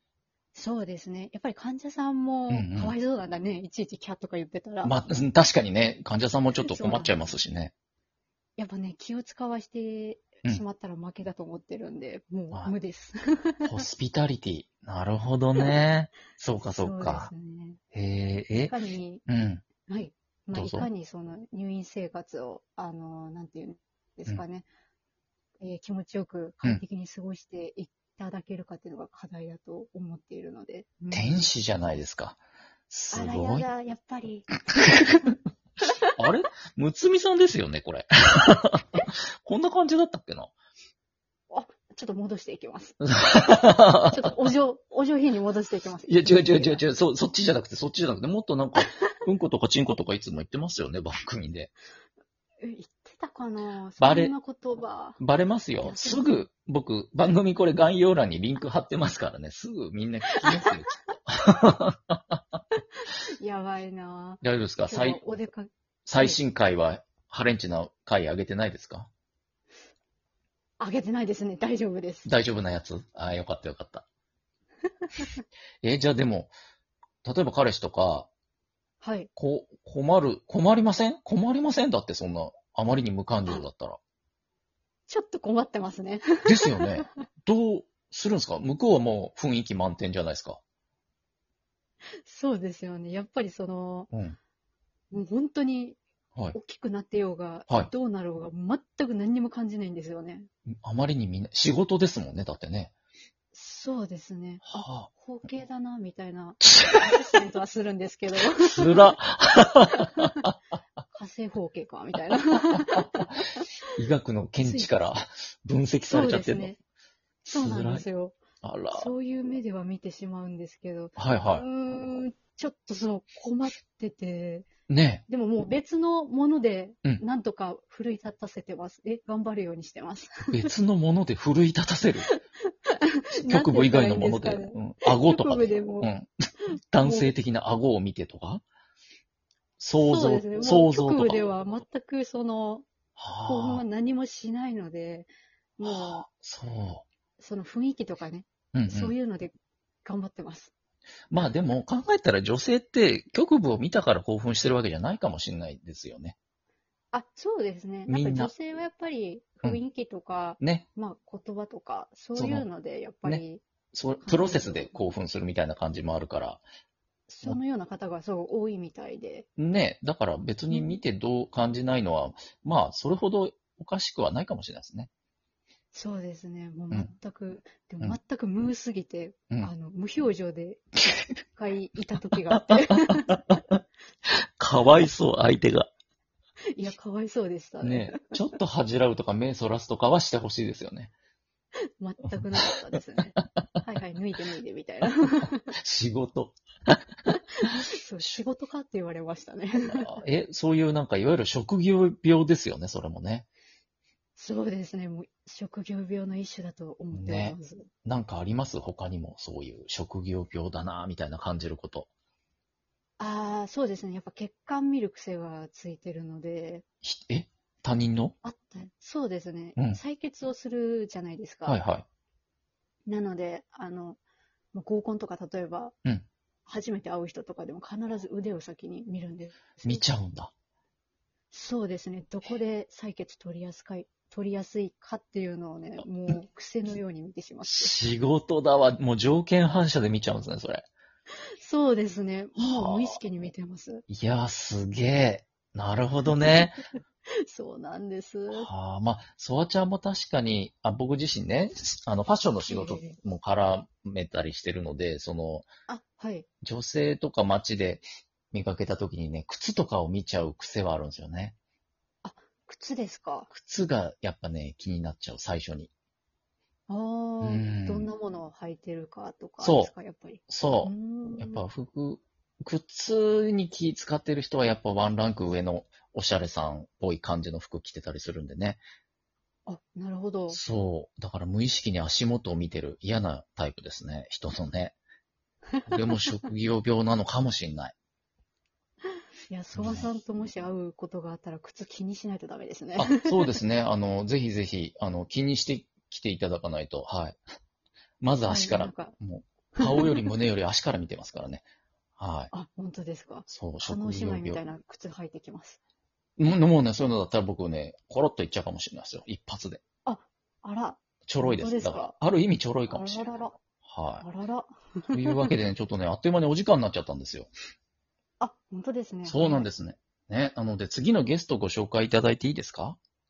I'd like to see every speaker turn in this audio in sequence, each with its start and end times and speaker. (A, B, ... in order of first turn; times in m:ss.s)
0:00.6-0:05.0 A
0:02.5-0:03.0 B
0:04.8-0:07.7 B
0:06.6-0:07.2 A
0:08.6-0:13.8 A
0:13.6-0:17.3 B
0:16.6-0:17.8 A
0:17.9-0:18.7 B
0:18.6-0:19.2 A
0:19.3-0:19.6 B
0:19.9-0:24.7 A
0:20.6-0:20.9 B
0:25.6-0:31.3 A
0:31.1-0:32.4 B
0:32.9-0:33.7 B
0:33.1-0:35.2 A
0:36.2-0:40.5 B
0:41.5-0:46.8 A
0:43.0-0:44.1 B
0:46.1-0:51.7 B
0:52.6-0:55.2 A
0:54.0-0:54.3 B
0:55.2-1:02.4 B
0:55.8-0:56.4 A
1:03.4-1:06.4 A
1:04.4-1:05.2 B
1:06.1-1:09.1 B
1:10.8-1:12.3 A
1:12.2-1:14.0 B
1:15.8-1:16.5 B
1:17.2-1:18.3 B
1:19.0-1:19.3 A
1:19.4-1:24.0 B
1:25.1-1:27.1 A
1:26.4-1:30.6 B
1:32.2-1:34.1 A
1:34.1-1:34.4 B
1:35.1-1:36.0 A
1:36.5-1:40.5 A
1:40.7-1:42.9 B
1:43.5-1:49.1 A
1:44.7-1:45.1 B
1:46.8-1:47.1 B
1:48.5-1:50.3 B
1:51.1-1:53.6 A
1:54.0-1:56.7 B
1:54.6-1:54.9 A
1:56.1-1:56.8 A
1:57.4-1:58.4 A
1:57.5-1:58.1 B
1:58.6-1:59.1 B
1:58.9-2:04.7 A
2:01.2-2:01.6 B
2:04.9-2:05.2 B
2:05.3-2:10.6 A
2:10.5-2:12.3 B
2:12.2-2:16.1 A
2:13.3-2:16.3 B
2:16.9-2:18.6 B
2:17.0-2:17.3 A
2:19.8-2:21.4 B
2:20.0-2:22.9 A
2:23.2-2:23.8 B
2:23.5-2:26.3 A
2:25.8-2:27.1 B
2:27.4-2:30.7 A
2:28.7-2:29.1 B
2:31.3-2:36.4 B
2:37.1-2:43.6 A
2:38.1-2:38.5 B
2:40.6-2:40.8 B
2:42.4-2:42.7 B
2:43.2-2:46.6 B
2:44.2-2:44.9 A
2:47.3-2:49.5 A
2:49.6-2:55.1 B
2:50.7-2:51.0 A
2:55.9-3:03.6 A
3:03.1-3:03.6 B
3:04.3-3:05.9 B
3:06.8-3:08.2 A
3:07.8-3:11.1 B
3:12.0-3:15.8 A
3:12.3-3:12.6 B
3:15.7-3:16.6 B
3:17.3-3:20.1 A
3:19.9-3:23.5 B
3:24.4-3:27.9 A
3:27.1-3:32.1 B
3:33.2-3:36.8 A
3:37.0-3:38.4 B
3:38.4-3:41.8 A
3:41.7-3:42.0 B
3:43.1-3:44.2 A
3:44.7-3:46.0 A
3:46.7-3:50.0 A
3:49.8-3:50.5 B
3:51.5-3:57.9 A
3:57.7-4:00.8 B
4:01.6-4:04.0 A
4:02.6-4:03.2 B
4:04.1-4:06.8 B
4:07.4-4:08.7 A
4:08.5-4:15.7 B
4:12.7-4:13.2 A
4:15.9-4:16.5 A
4:16.6-4:21.6 B
4:22.2-4:23.5 A
4:23.5-4:25.9 B
4:26.9-4:31.6 A
4:27.4-4:28.1 B
4:29.6-4:29.9 B
4:30.5-4:38.8 B
4:39.7-4:40.6 A
4:40.5-4:45.0 B
4:45.9-4:48.0 B
4:49.5-4:53.5 A
4:49.7-4:50.1 B
4:53.0-4:57.4 B
4:58.2-5:01.6 B
4:58.5-4:59.2 A
4:59.8-5:00.3 A
5:02.2-5:02.5 B
5:02.5-5:05.8 A
5:03.5-5:04.6 B
5:06.4-5:09.8 B
5:10.0-5:12.1 A
5:11.3-5:13.2 B
5:12.9-5:13.6 A
5:13.8-5:14.2 B
5:14.2-5:15.6 A
5:15.1-5:17.5 B
5:18.4-5:19.7 A
5:19.3-5:23.0 B